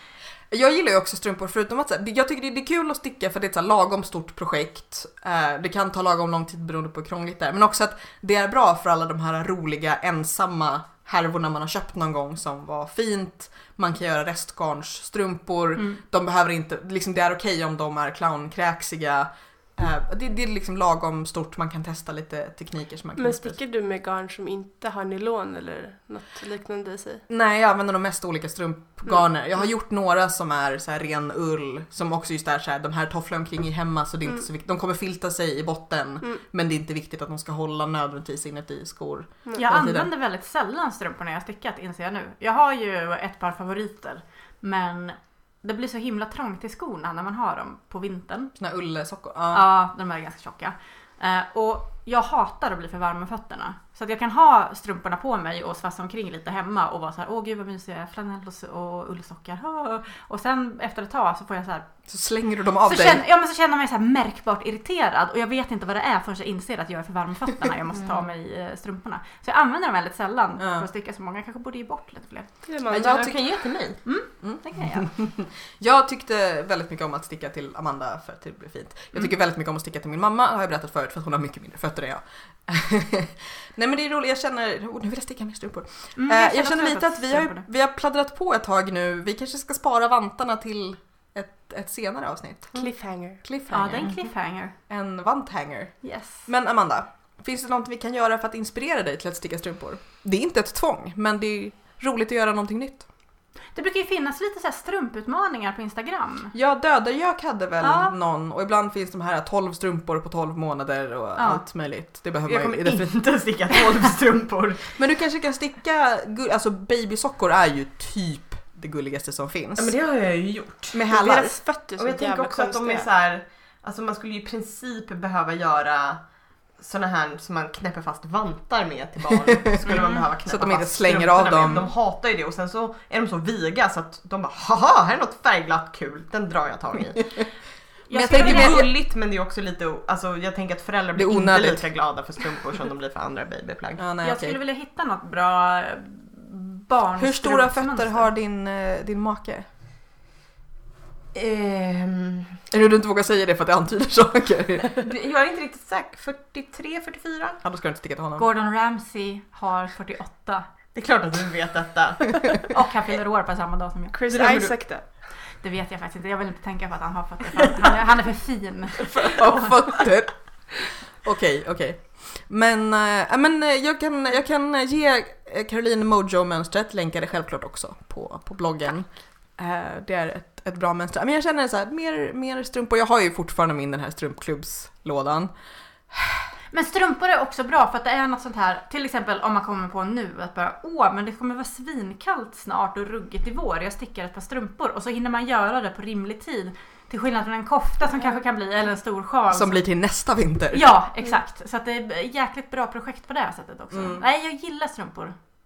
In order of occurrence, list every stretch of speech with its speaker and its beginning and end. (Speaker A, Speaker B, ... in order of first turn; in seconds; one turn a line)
Speaker A: 0.5-23.6
Speaker B: 23.2-27.2
Speaker A: 27.3-40.1
Speaker C: 39.5-48.5
Speaker A: 48.6-49.6
Speaker C: 49.5-61.9
Speaker A: 62.1-63.2
Speaker C: 62.8-72.5
Speaker A: 70.6-70.8
Speaker B: 72.7-73.3
Speaker A: 72.9-73.4
Speaker D: 72.9-74.0
Speaker C: 74.0-75.1
Speaker A: 74.4-92.7
Speaker C: 86.2-87.6
Speaker B: 92.7-93.4
Speaker A: 93.4-94.2
Speaker C: 93.7-94.7
Speaker A: 94.9-103.0
Speaker C: 96.0-96.4
Speaker C: 103.7-106.5
Speaker A: 106.5-113.2
Speaker C: 107.8-108.1
Speaker C: 111.4-111.6
Speaker D: 112.5-115.0
Speaker A: 114.9-119.9
Speaker D: 119.8-121.0
Speaker A: 120.9-121.5
Speaker B: 121.1-123.1
Speaker D: 122.0-126.2
Speaker D: 126.8-137.4
Speaker A: 129.8-131.9
Speaker C: 129.8-130.2
Speaker C: 138.1-138.9
Speaker A: 138.1-138.9
Speaker D: 138.3-144.0
Speaker A: 141.1-141.9
Speaker A: 144.0-144.6
Speaker C: 144.2-148.3
Speaker A: 147.2-149.7
Speaker D: 151.3-152.6
Speaker A: 152.7-155.1
Speaker D: 155.0-157.6
Speaker A: 157.6-158.5
Speaker C: 158.4-160.7
Speaker D: 160.9-162.7
Speaker C: 162.7-164.2
Speaker B: 164.1-165.1
Speaker D: 164.3-164.7
Speaker C: 165.6-169.8
Speaker A: 169.1-185.5
Speaker A: 186.1-186.4
Speaker C: 186.7-199.8
Speaker A: 199.5-200.9
Speaker C: 200.7-205.3
Speaker A: 203.9-204.2